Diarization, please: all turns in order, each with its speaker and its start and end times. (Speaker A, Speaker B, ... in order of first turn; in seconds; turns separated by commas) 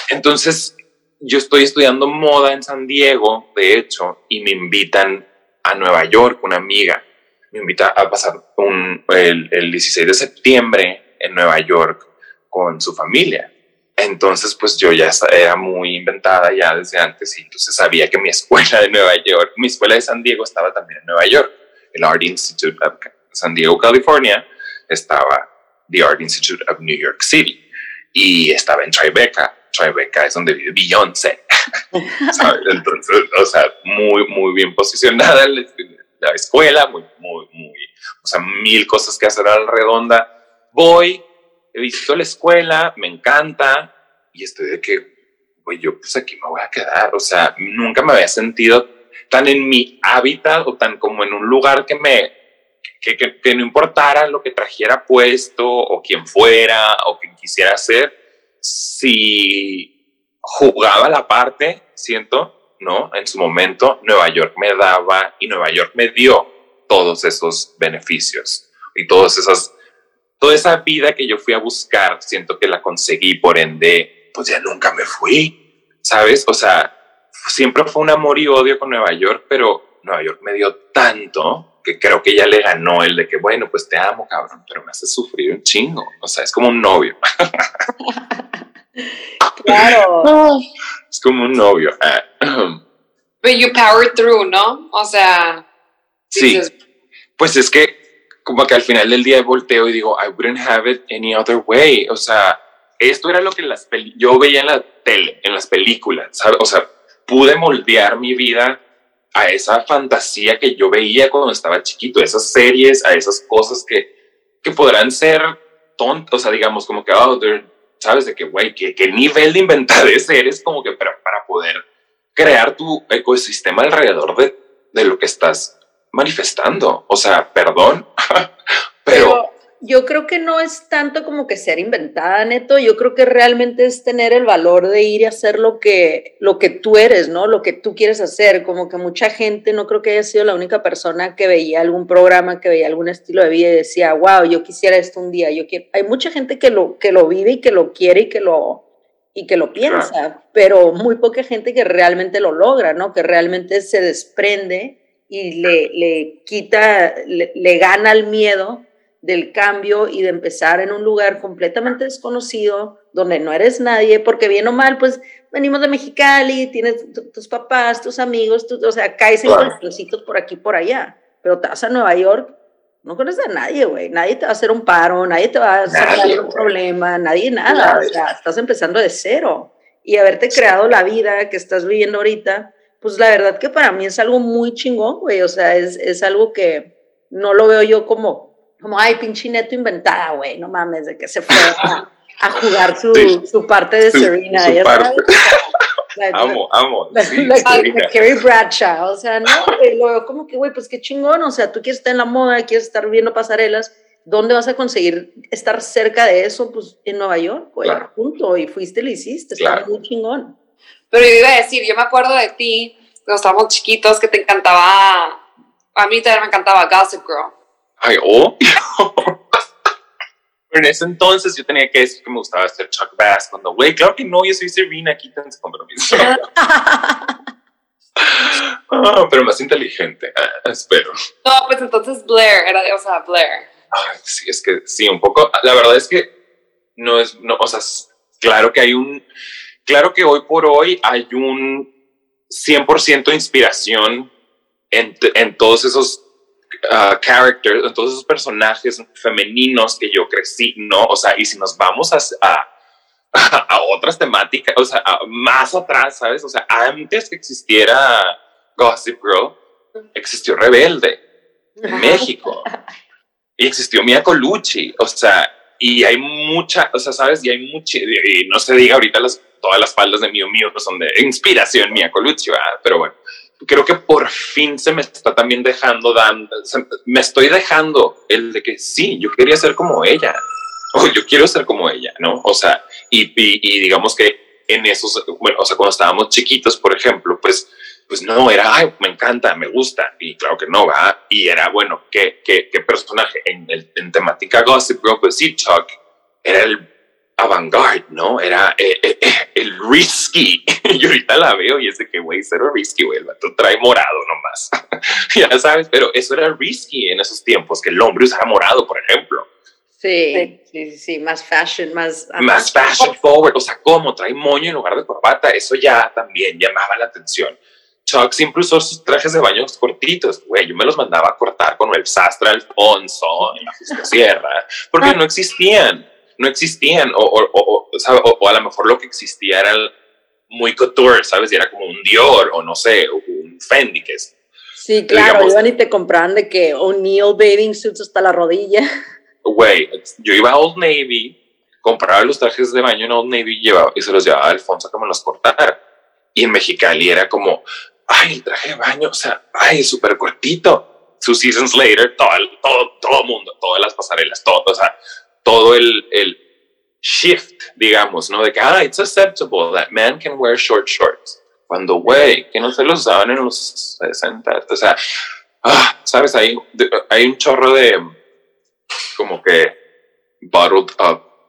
Speaker A: 0.1-27.6, Speaker A: 28.1-31.4, Speaker B: 31.9-32.5, Speaker A: 32.3-45.1, Speaker A: 45.6-52.3, Speaker A: 53.0-59.9, Speaker A: 60.4-69.7, Speaker A: 70.4-87.7, Speaker B: 88.0-88.5, Speaker B: 89.0-90.3, Speaker A: 89.7-90.6, Speaker A: 91.1-92.8, Speaker C: 93.4-95.7, Speaker C: 96.3-96.7, Speaker A: 96.3-96.6, Speaker A: 97.4-108.8, Speaker A: 109.3-114.1, Speaker A: 114.6-121.8, Speaker A: 122.3-128.5, Speaker A: 129.0-129.4, Speaker B: 129.1-195.6, Speaker A: 149.8-150.1, Speaker A: 169.4-169.7, Speaker A: 175.9-176.7, Speaker A: 177.7-178.2, Speaker A: 193.1-193.4, Speaker A: 194.1-195.6, Speaker B: 196.2-210.6, Speaker A: 196.3-198.1, Speaker A: 209.6-209.8, Speaker C: 211.1-215.4, Speaker C: 215.9-217.6, Speaker A: 218.0-219.4, Speaker A: 220.7-226.4, Speaker B: 226.6-227.4, Speaker A: 228.2-231.1, Speaker C: 231.4-233.7, Speaker A: 233.9-236.3, Speaker A: 237.0-239.2, Speaker A: 239.9-241.9, Speaker A: 242.5-244.3, Speaker A: 244.9-246.2, Speaker A: 246.9-252.7, Speaker A: 253.3-259.6, Speaker A: 260.1-261.2, Speaker B: 261.8-262.8, Speaker A: 261.9-262.7, Speaker A: 263.6-280.4, Speaker A: 280.9-296.8, Speaker A: 297.4-304.7, Speaker A: 305.3-309.5, Speaker B: 310.0-312.8, Speaker A: 312.4-329.9, Speaker A: 330.5-334.3, Speaker B: 334.8-338.9, Speaker A: 335.1-335.6, Speaker A: 339.4-345.8, Speaker A: 346.3-356.4, Speaker A: 357.0-365.0, Speaker B: 362.1-362.3, Speaker A: 365.6-368.1, Speaker A: 369.2-369.8, Speaker A: 370.4-371.2